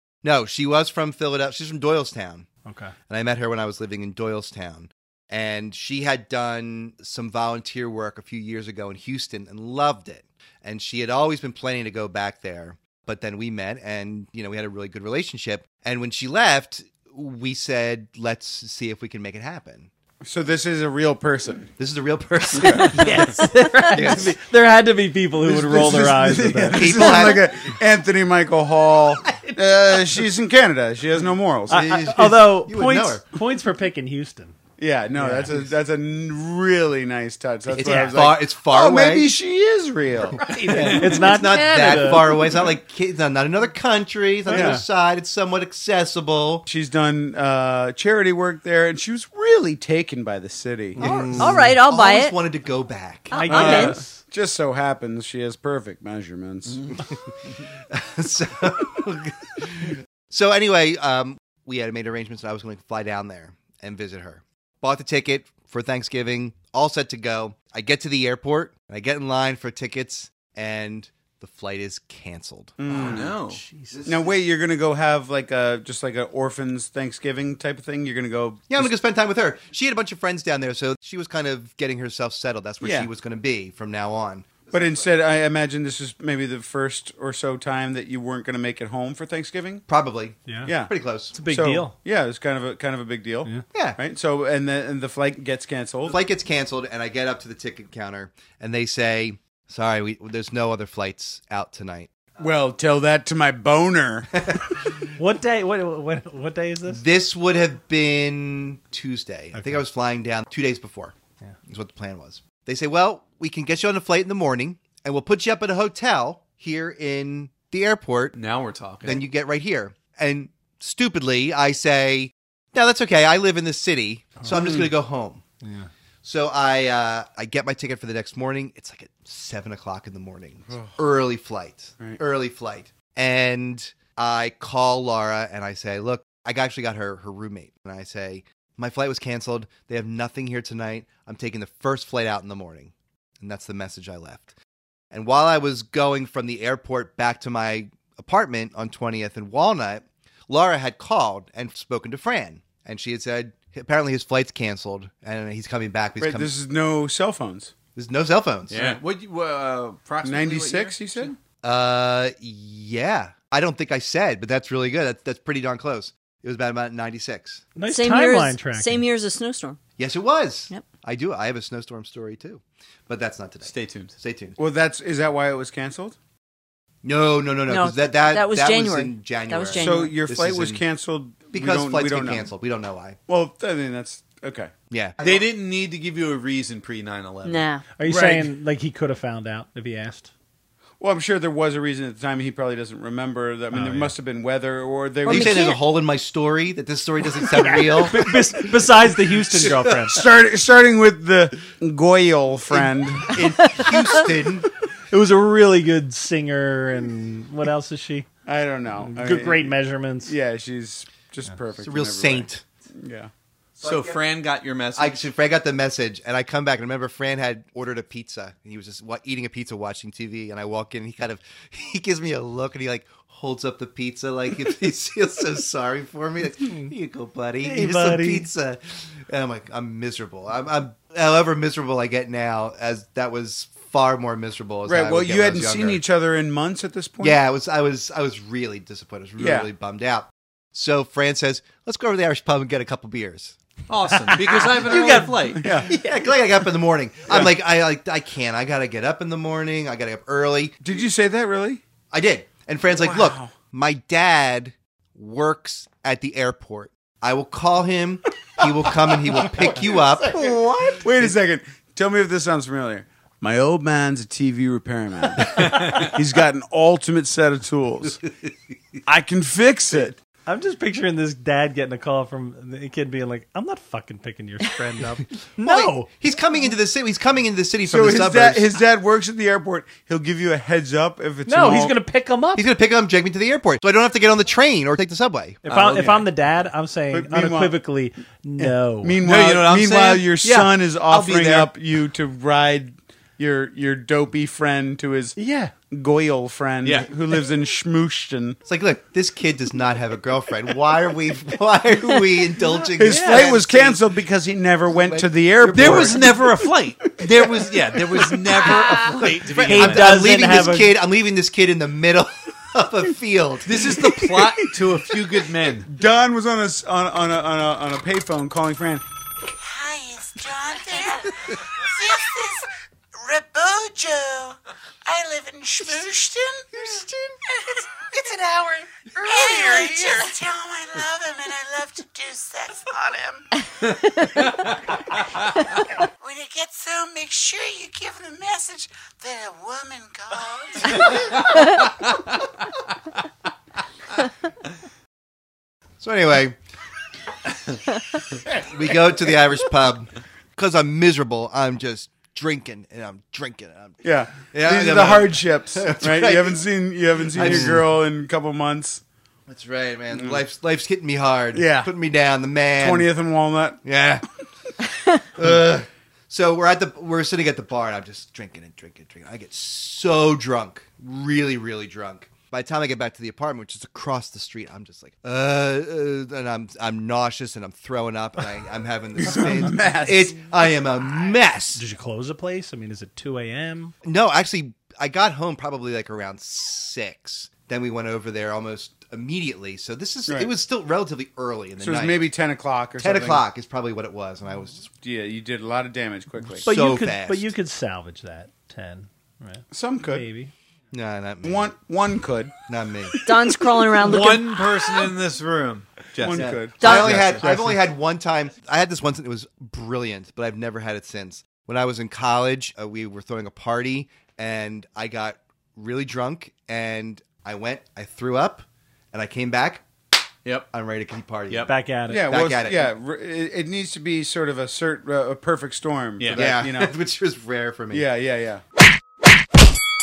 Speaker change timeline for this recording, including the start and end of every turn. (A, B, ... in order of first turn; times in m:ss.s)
0:00.2-0:02.5 A
0:02.6-0:02.9 B
0:03.1-0:19.9 A
0:20.2-0:21.7 C
0:21.8-0:23.3 A
0:22.7-0:27.3 B
0:23.9-0:24.4 A
0:25.4-0:31.8 C
0:26.7-0:27.6 A
0:31.7-0:33.2 A
0:31.7-0:34.6 B
0:34.8-0:41.0 C
0:35.2-0:35.5 B
0:35.2-0:35.5 A
0:37.7-0:38.2 B
0:37.7-0:39.3 A
0:40.4-0:42.6 B
0:40.7-0:46.6 A
0:44.5-0:44.8 C
0:44.5-0:44.8 B
0:46.7-0:51.0 C
0:51.0-0:51.8 B
0:51.0-0:53.7 A
0:51.1-0:52.4 D
0:53.3-0:54.0 D
0:53.3-0:54.2 B
0:53.5-0:56.9 C
0:57.9-1:12.8 A
1:12.8-1:13.4 C
1:13.0-1:13.6 E
1:13.5-1:14.0 B
1:13.9-1:14.3 A
1:14.1-1:18.9 C
1:18.7-1:25.1 A
1:22.8-1:23.1 C
1:24.7-1:29.8 C
1:29.9-1:31.4 A
1:30.5-1:30.8 B
1:30.6-1:30.9 C
1:31.3-1:32.0 B
1:31.5-1:36.2 C
1:33.7-1:34.0 A
1:36.1-1:42.1 A
1:42.4-1:44.3 C
1:45.2-1:47.0 B
1:46.9-1:51.2 A
1:49.5-1:49.8 B
1:51.7-1:58.4 A
1:58.4-1:59.3 E
1:59.0-2:05.4 A
2:05.6-2:05.9 B
2:06.2-2:24.5 A
2:10.7-2:11.0 C
2:25.1-2:36.5 A
2:36.2-2:37.7 C
2:38.0-2:39.0 A
2:38.7-2:41.4 E
2:40.2-2:41.4 C
2:41.6-2:47.6 A
2:47.8-2:49.1 B
2:47.9-2:49.8 D
2:50.0-2:54.6 A
2:53.7-2:54.2 E
2:54.6-2:56.2 C
2:57.0-3:00.8 A
2:57.7-3:00.2 D
2:59.8-3:02.5 C
3:01.5-3:03.2 A
3:03.3-3:04.7 C
3:04.9-3:05.2 A
3:05.2-3:07.6 E
3:07.4-3:07.9 D
3:08.0-3:10.3 B
3:08.0-3:08.5 C
3:11.0-3:15.6 C
3:15.3-3:15.8 D
3:15.3-3:18.3 A
3:17.5-3:20.2 B
3:19.6-3:20.1 A
3:20.0-3:23.4 C
3:22.7-3:24.7 A
3:25.1-3:28.3 B
3:28.5-3:33.3 C
3:29.0-3:30.3 B
3:31.8-3:32.6 A
3:33.8-3:34.2 A
3:33.8-3:35.3 E
3:35.0-3:56.0 A
3:47.6-3:48.5 B
3:54.9-3:57.4 C
3:57.2-4:03.6 A
3:59.4-3:59.7 C
4:03.9-4:05.7 E
4:04.6-4:06.1 B
4:04.7-4:10.8 A
4:05.6-4:05.9 C
4:10.8-4:11.8 C
4:12.1-4:20.5 A
4:12.9-4:13.5 C
4:20.2-4:28.2 C
4:29.0-4:30.2 C
4:30.5-4:36.1 B
4:35.6-4:38.7 A
4:37.9-4:42.0 C
4:41.5-4:42.6 B
4:42.6-4:45.6 A
4:45.6-4:49.2 B
4:45.7-4:46.3 C
4:47.1-4:47.8 C
4:48.6-4:55.4 C
4:49.2-4:50.8 E
4:51.1-4:51.7 A
4:55.4-4:55.7 B
4:55.9-4:58.6 C
4:56.8-4:57.1 E
4:58.6-5:04.0 A
5:03.0-5:06.5 C
5:03.1-5:03.4 B
5:04.9-5:06.3 A
5:05.7-5:10.3 E
5:08.9-5:14.0 A
5:09.6-5:11.0 B
5:13.7-5:15.9 E
5:14.2-5:14.7 C
5:15.8-5:19.0 C
5:19.6-5:33.5 F
5:34.3-5:34.8 E
5:36.2-5:41.1 F
5:41.0-5:42.4 E
5:46.0-5:46.6 A
5:48.5-5:56.6 A
5:54.0-5:59.0 C
5:57.3-5:57.9 A
5:59.5-6:03.1 A
6:00.1-6:00.4 C
6:01.5-6:01.9 C
6:02.8-6:03.8 C
6:03.8-6:04.2 A
6:05.4-6:21.8 A
6:19.2-6:20.4 C
6:21.8-6:23.9 B
6:24.0-6:32.3 A
6:30.3-6:30.5 C
6:31.8-6:33.4 C
6:33.0-6:34.9 A
6:35.0-6:36.7 C
6:36.6-6:40.5 B
6:36.7-6:37.5 A
6:39.7-6:40.3 C
6:40.9-6:41.7 A
6:41.4-6:42.5 C
6:42.7-6:43.1 A
6:43.2-6:44.6 D
6:44.0-6:47.5 E
6:46.2-6:47.7 C
6:46.3-6:59.8 A
6:46.8-6:47.4 D
7:00.7-7:02.9 A
7:01.7-7:02.3 B
7:02.1-7:07.0 C
7:06.3-7:08.1 A
7:07.9-7:08.6 C